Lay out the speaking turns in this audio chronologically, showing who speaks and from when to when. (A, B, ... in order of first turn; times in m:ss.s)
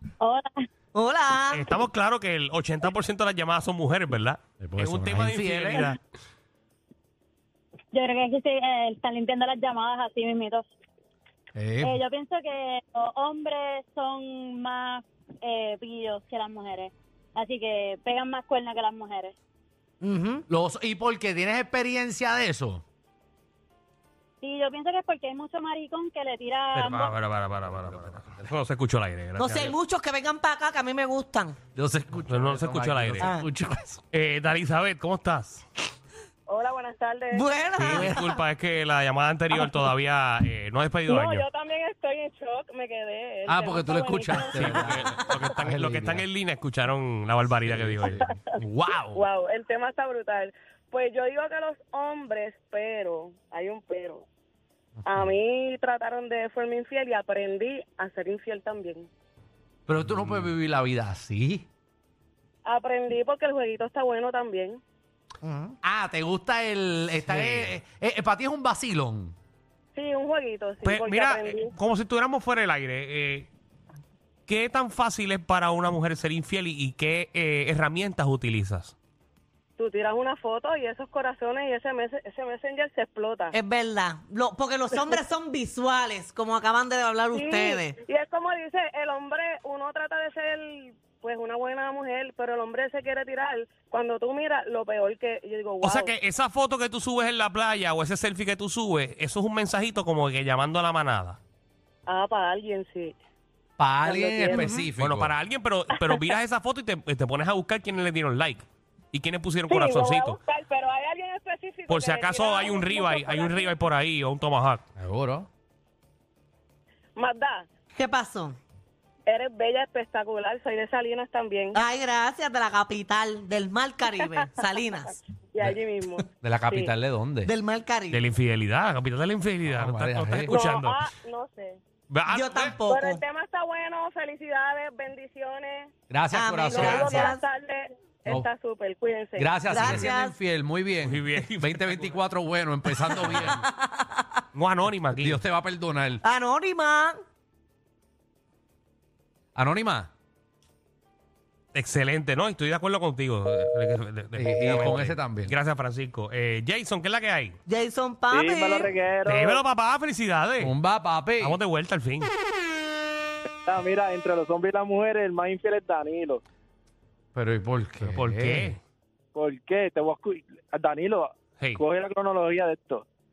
0:00.2-0:00.7 A
0:00.9-0:01.7 B
0:01.5-0:06.0 C
0:04.6-0:06.0 D
0:07.9-0:10.6 A
0:11.5-0:12.0 D
0:11.8-0:19.3 A
0:20.0-0:20.4 B
0:20.5-0:22.8 D
0:24.4-0:27.2 A
0:26.7-0:27.1 D
0:26.8-0:29.7 C
0:27.8-0:28.3 D
0:29.4-0:31.6 B
0:31.7-0:34.0 D
0:32.3-0:33.3 C
0:33.2-0:33.5 B
0:34.1-0:35.6 C
0:36.5-0:37.4 E
0:37.3-0:38.2 B
0:37.8-0:41.4 C
0:37.9-0:38.3 D
0:41.1-0:45.1 E
0:43.4-0:46.3 D
0:44.5-0:48.2 C
0:47.6-0:49.2 D
0:49.1-0:54.2 E
0:55.0-0:55.3 D
0:55.0-0:59.1 E
0:59.9-1:01.7 D
1:00.0-1:00.5 C
1:02.6-1:04.8 E
1:05.4-1:05.7 B
1:05.8-1:09.3 D
1:07.2-1:07.8 C
1:09.9-1:11.7 E
1:10.8-1:13.5 C
1:14.5-1:18.9 C
1:19.8-1:23.6 E
1:23.5-1:28.0 B
1:27.3-1:36.1 E
1:35.8-1:41.4 C
1:42.1-1:43.1 E
1:43.8-1:45.3 D
1:44.0-1:44.7 E
1:44.5-1:44.9 B
1:45.0-1:50.4 C
1:49.7-1:53.8 E
1:51.9-1:54.8 C
1:55.0-1:55.5 D
1:57.2-1:57.7 E
1:58.0-1:58.6 B
1:59.3-2:01.8 E
2:01.7-2:05.2 B
2:05.1-2:06.9 E
2:06.4-2:07.5 D
2:07.4-2:08.3 B
2:08.1-2:11.0 C
2:09.6-2:10.6 D
2:10.5-2:11.8 E
2:12.1-2:12.8 C
2:12.3-2:13.2 B
2:12.8-2:15.9 E
2:16.1-2:17.3 D
2:16.3-2:17.4 B
2:16.7-2:19.5 E
2:19.4-2:23.6 D
2:19.7-2:20.3 B
2:21.0-2:22.2 C
2:23.2-2:24.2 B
2:24.5-2:25.4 C
2:25.2-2:26.2 D
2:26.2-2:27.2 B
2:29.5-2:30.1 D
2:31.7-2:37.6 C
2:34.4-2:35.6 D
2:37.7-2:38.9 B
2:38.3-2:39.6 F
2:39.3-2:40.7 C
2:40.6-2:41.6 D
2:41.4-2:42.3 C
2:43.6-2:46.4 F
2:47.3-2:48.7 D
2:48.0-2:48.8 C
2:49.3-2:53.0 F